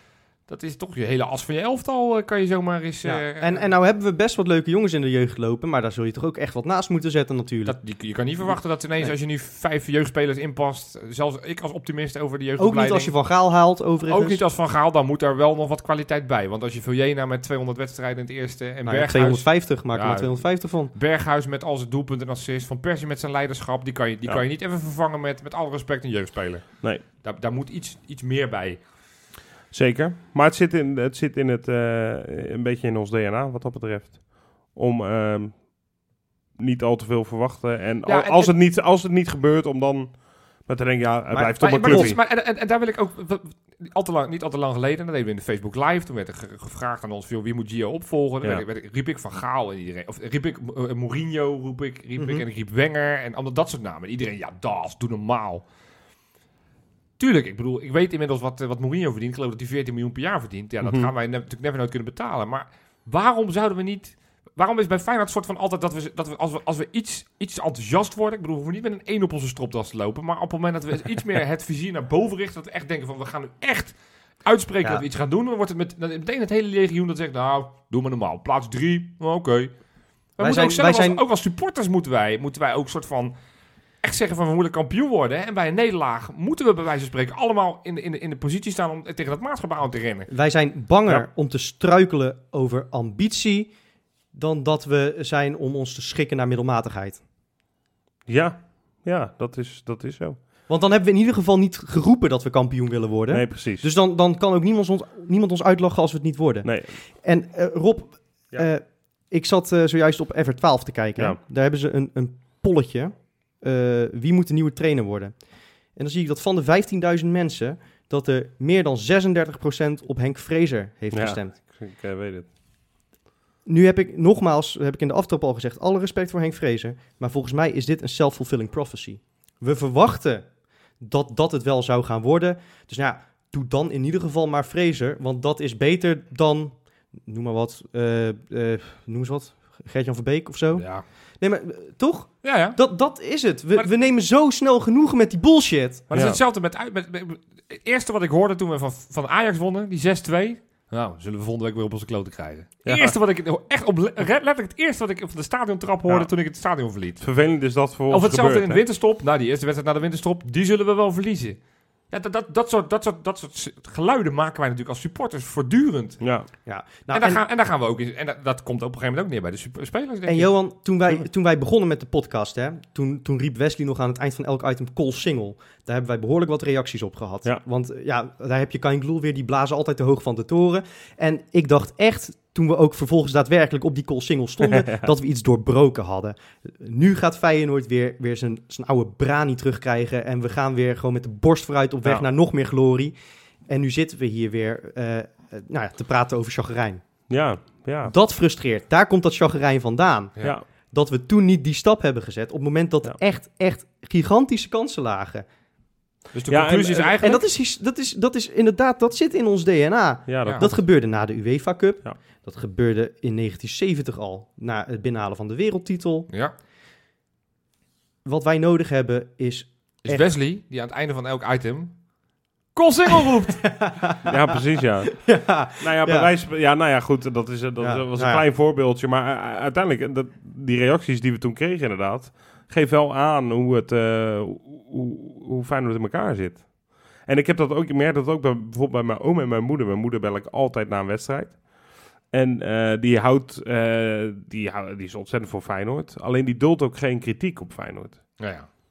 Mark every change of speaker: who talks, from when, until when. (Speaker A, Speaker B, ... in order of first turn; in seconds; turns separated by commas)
Speaker A: 0.5-3.7, Speaker B: 3.0-7.8, Speaker A: 7.6-13.1, Speaker B: 12.6-14.4, Speaker A: 14.1-28.8, Speaker B: 18.8-20.9, Speaker C: 29.7-35.7, Speaker C: 36.6-42.2, Speaker A: 38.0-38.5, Speaker B: 41.3-42.1, Speaker A: 41.6-55.6, Speaker B: 52.2-52.4, Speaker A: 57.2-79.7, Speaker C: 60.8-61.1, Speaker A: 80.4-83.3, Speaker B: 80.4-81.2, Speaker A: 84.0-90.3, Speaker B: 90.3-93.7, Speaker B: 94.3-97.2, Speaker C: 98.3-100.4, Speaker B: 100.7-115.4, Speaker C: 103.3-103.9, Speaker C: 106.6-106.9, Speaker B: 115.9-121.6, Speaker C: 121.1-122.5, Speaker B: 123.7-130.5, Speaker B: 131.0-140.9, Speaker A: 140.7-141.0, Speaker B: 141.4-146.1, Speaker A: 142.4-142.8, Speaker A: 146.1-157.2, Speaker C: 146.1-146.4, Speaker C: 152.8-153.2, Speaker C: 157.2-158.8, Speaker A: 158.1-166.3, Speaker C: 166.2-166.5, Speaker B: 166.6-167.4, Speaker A: 167.1-170.5, Speaker B: 170.2-193.1, Speaker C: 184.6-185.1, Speaker B: 193.7-197.0, Speaker C: 197.3-198.1, Speaker B: 198.1-200.3, Speaker B: 200.9-205.4, Speaker A: 206.3-207.4, Speaker C: 206.5-207.2, Speaker B: 207.2-216.3, Speaker C: 210.3-210.8, Speaker B: 218.2-220.2, Speaker A: 220.0-221.9, Speaker A: 222.7-223.7, Speaker B: 223.5-224.5, Speaker C: 224.2-241.6, Speaker B: 225.1-226.3, Speaker B: 227.8-228.4, Speaker C: 242.3-248.4, Speaker A: 248.4-248.7